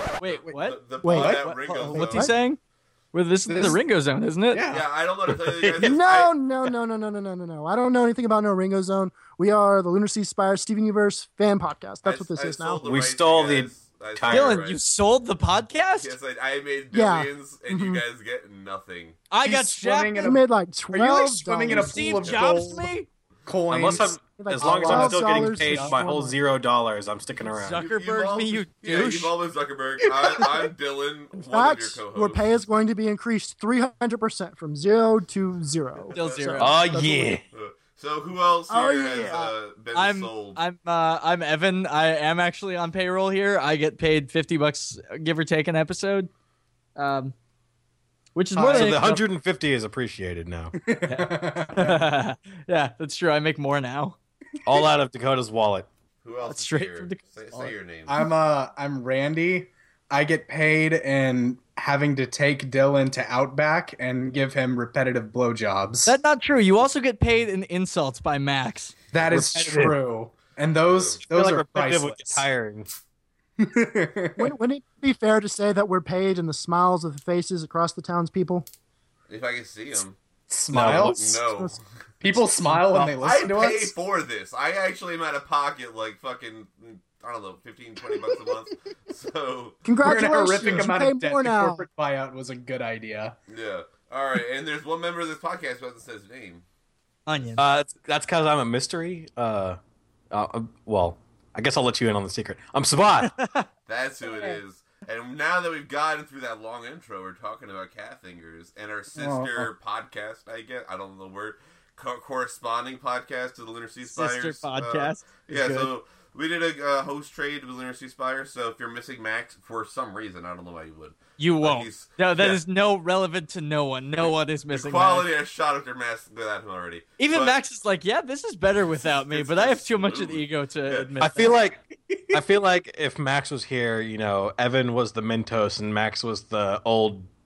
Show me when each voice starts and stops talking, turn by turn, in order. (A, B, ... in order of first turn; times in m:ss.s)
0:00.2-0:02.6 A
0:00.2-0:02.3 B
0:01.0-0:01.3 C
0:01.1-0:02.3 D
0:03.1-0:04.7 A
0:03.5-0:03.8 D
0:04.5-0:04.9 D
0:04.7-0:06.3 B
0:05.8-0:12.8 C
0:12.0-0:14.8 B
0:12.8-0:14.6 E
0:14.3-0:16.2 A
0:16.0-0:19.2 B
0:16.9-0:18.0 C
0:19.3-0:20.4 A
0:19.4-0:20.4 D
0:20.2-0:22.3 C
0:20.9-0:22.9 D
0:21.6-0:23.1 A
0:23.5-0:26.0 D
0:23.7-0:27.8 E
0:24.4-0:26.4 C
0:27.4-0:29.3 A
0:27.8-0:32.4 B
0:30.2-0:30.7 D
0:31.5-0:37.4 C
0:36.0-0:36.8 B
0:36.1-0:36.8 A
0:36.6-0:37.4 E
0:37.5-0:40.6 B
0:38.7-0:46.3 A
0:39.0-0:39.5 C
0:47.0-0:47.3 A
0:48.4-0:49.2 A
0:48.6-0:49.1 D
0:48.7-0:50.7 E
0:50.8-0:52.0 D
0:51.1-0:54.2 A
0:54.6-0:55.9 E
0:56.2-0:58.2 B
0:56.4-0:57.7 A
0:58.1-1:06.2 D
1:06.1-1:09.0 A
1:09.1-1:12.5 D
1:09.3-1:10.0 E
1:10.9-1:11.2 B
1:11.2-1:12.9 E
1:13.6-1:14.5 D
1:14.4-1:18.7 C
1:19.3-1:20.2 B
1:20.5-1:21.2 D
1:20.7-1:21.4 E
1:20.7-1:21.8 B
1:22.2-1:23.9 D
1:22.7-1:29.8 B
1:29.8-1:31.9 C
1:30.0-1:33.4 D
1:30.6-1:30.9 B
1:33.5-1:36.6 B
1:37.3-1:37.6 A
1:37.6-1:39.8 E
1:40.3-1:43.3 E
1:43.4-1:43.7 A
1:43.9-2:02.6 B
1:49.1-1:49.7 D
1:54.0-1:55.9 A
2:01.4-2:05.3 A
2:04.7-2:07.6 B
2:07.2-2:11.6 A
2:09.0-2:11.5 B
2:11.2-2:11.8 E
2:12.1-2:12.4 D
2:12.3-2:17.3 E